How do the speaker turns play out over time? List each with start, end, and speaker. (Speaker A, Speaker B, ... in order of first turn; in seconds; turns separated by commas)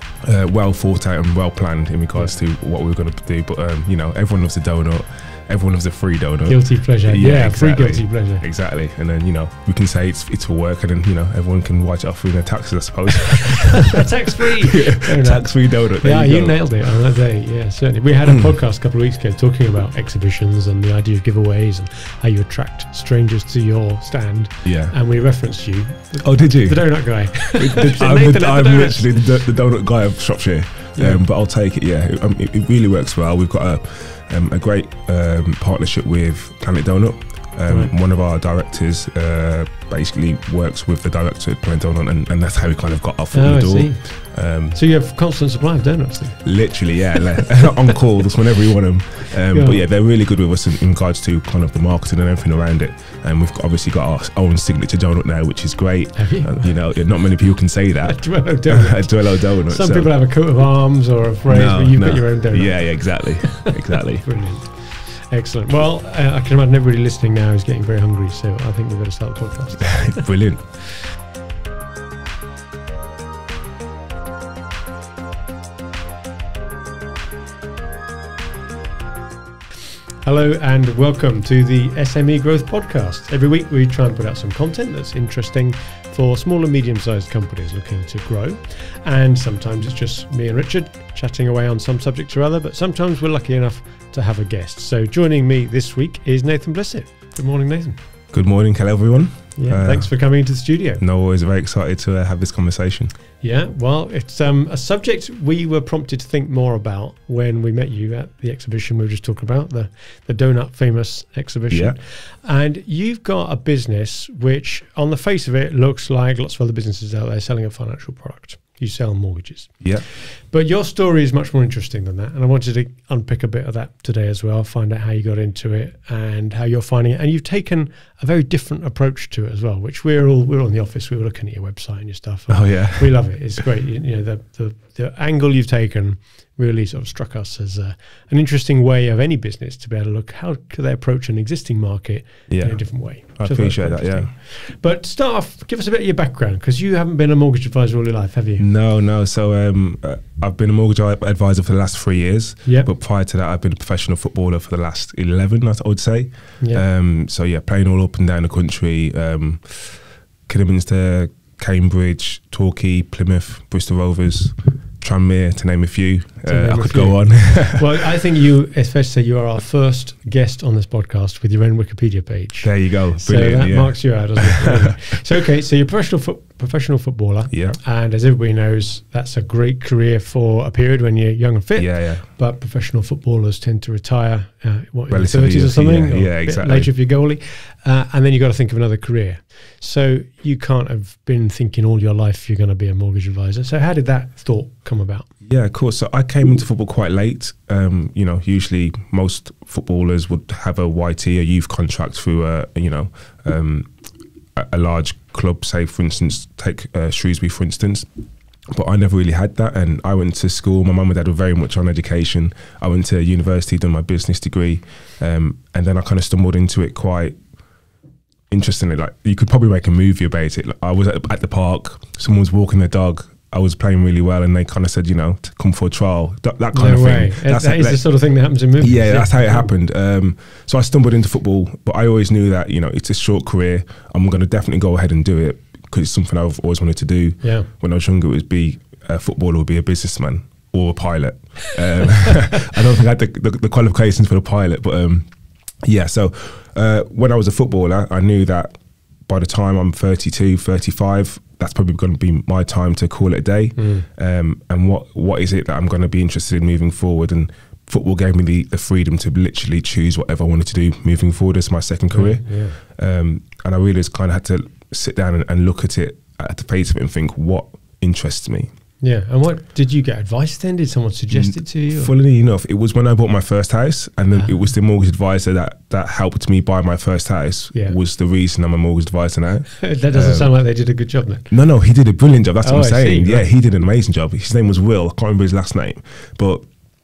Speaker A: 0.2-16.7, Speaker B: 6.5-8.4, Speaker B: 13.4-29.2, Speaker A: 18.3-18.5, Speaker A: 24.6-24.9, Speaker A: 26.2-44.8, Speaker B: 30.9-31.2, Speaker B: 43.3-46.5, Speaker A: 46.4-60.1, Speaker B: 49.5-49.8, Speaker B: 56.1-56.7, Speaker B: 58.0-70.3, Speaker A: 61.5-64.3, Speaker A: 69.8-70.7, Speaker B: 80.2-98.0, Speaker A: 98.3-100.1, Speaker B: 99.6-101.0, Speaker A: 101.0-103.1, Speaker B: 103.4-148.6, Speaker A: 111.7-112.0, Speaker A: 132.5-133.2, Speaker A: 142.5-144.3, Speaker A: 148.6-167.9, Speaker B: 166.5-195.3, Speaker A: 172.6-175.0, Speaker A: 177.5-177.8, Speaker A: 181.8-182.2, Speaker A: 185.1-186.9, Speaker A: 195.4-203.9, Speaker A: 204.5-208.1, Speaker A: 208.7-217.4, Speaker A: 218.5-228.0, Speaker B: 226.7-229.7, Speaker A: 228.8-245.3, Speaker B: 237.4-237.7, Speaker A: 245.8-268.7, Speaker B: 253.8-254.1, Speaker B: 262.1-262.8, Speaker B: 269.0-272.1, Speaker A: 271.3-280.5, Speaker B: 279.8-281.5, Speaker A: 281.5-286.6, Speaker B: 282.6-283.5